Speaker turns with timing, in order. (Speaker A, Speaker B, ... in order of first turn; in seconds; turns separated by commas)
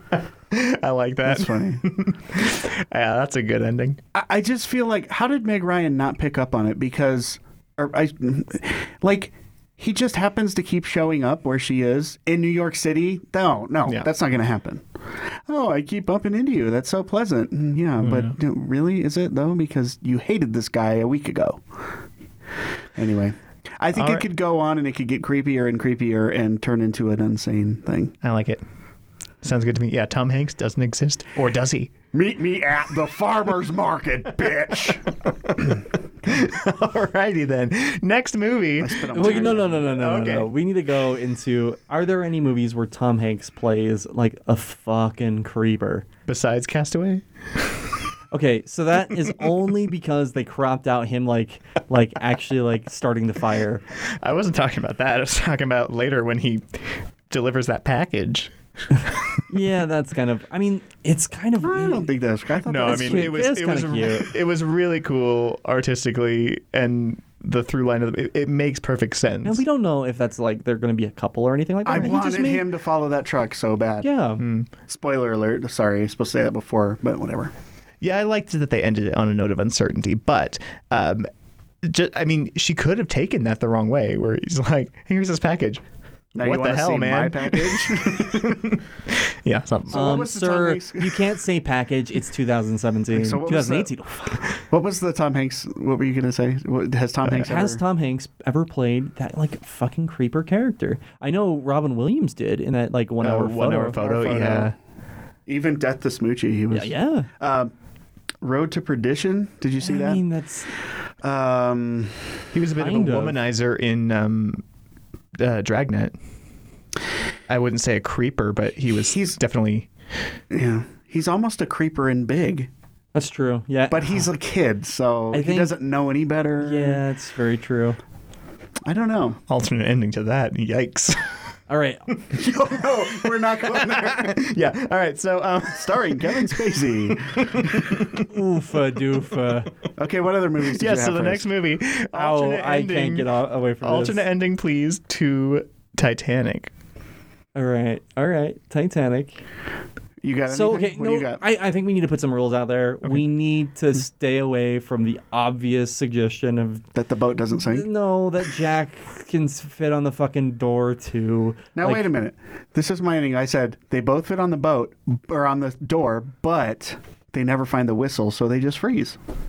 Speaker A: 0.5-4.0, Speaker B: 1.2-1.8, Speaker B: 4.1-14.8, Speaker B: 15.5-21.6, Speaker A: 18.0-18.3, Speaker B: 22.9-28.1, Speaker A: 23.9-24.2, Speaker A: 28.2-28.6, Speaker A: 29.4-31.9, Speaker B: 32.1-35.1, Speaker A: 35.2-40.5, Speaker B: 38.8-39.9, Speaker C: 39.1-46.0, Speaker A: 46.3-47.7, Speaker C: 48.3-53.8, Speaker A: 54.0-58.5, Speaker A: 59.0-59.4, Speaker C: 59.5-62.1, Speaker B: 61.6-63.4, Speaker A: 62.6-69.6, Speaker C: 62.8-64.3, Speaker C: 69.4-72.7, Speaker B: 71.8-74.1, Speaker C: 74.0-74.4, Speaker A: 74.4-74.7, Speaker B: 74.9-77.5, Speaker A: 78.0-81.2, Speaker A: 81.8-85.8, Speaker B: 86.3-88.7, Speaker A: 86.4-90.2, Speaker B: 89.9-91.3, Speaker C: 89.9-94.4, Speaker B: 93.1-93.9, Speaker B: 94.5-97.8, Speaker C: 97.4-104.0, Speaker A: 103.2-104.7, Speaker B: 104.0-104.7, Speaker B: 105.5-107.7, Speaker C: 106.7-107.3, Speaker B: 108.4-110.2, Speaker C: 109.8-110.7, Speaker B: 111.2-112.3, Speaker A: 112.5-114.6, Speaker C: 112.8-113.4, Speaker A: 115.4-116.1, Speaker A: 117.5-119.9, Speaker B: 119.1-119.4, Speaker B: 120.5-122.7, Speaker C: 123.1-124.3, Speaker B: 123.9-127.0, Speaker C: 125.3-125.7, Speaker C: 126.6-128.0, Speaker B: 128.8-129.4, Speaker A: 129.5-131.5, Speaker C: 131.7-132.1, Speaker B: 132.3-134.4, Speaker A: 133.3-138.3, Speaker B: 135.7-138.1, Speaker C: 138.3-139.7, Speaker B: 140.0-141.5, Speaker A: 140.7-143.3, Speaker C: 142.1-144.2, Speaker A: 143.8-146.7, Speaker C: 147.5-149.4, Speaker B: 150.2-151.4, Speaker C: 150.5-156.8, Speaker B: 156.9-157.9, Speaker C: 157.5-162.1, Speaker B: 161.8-169.2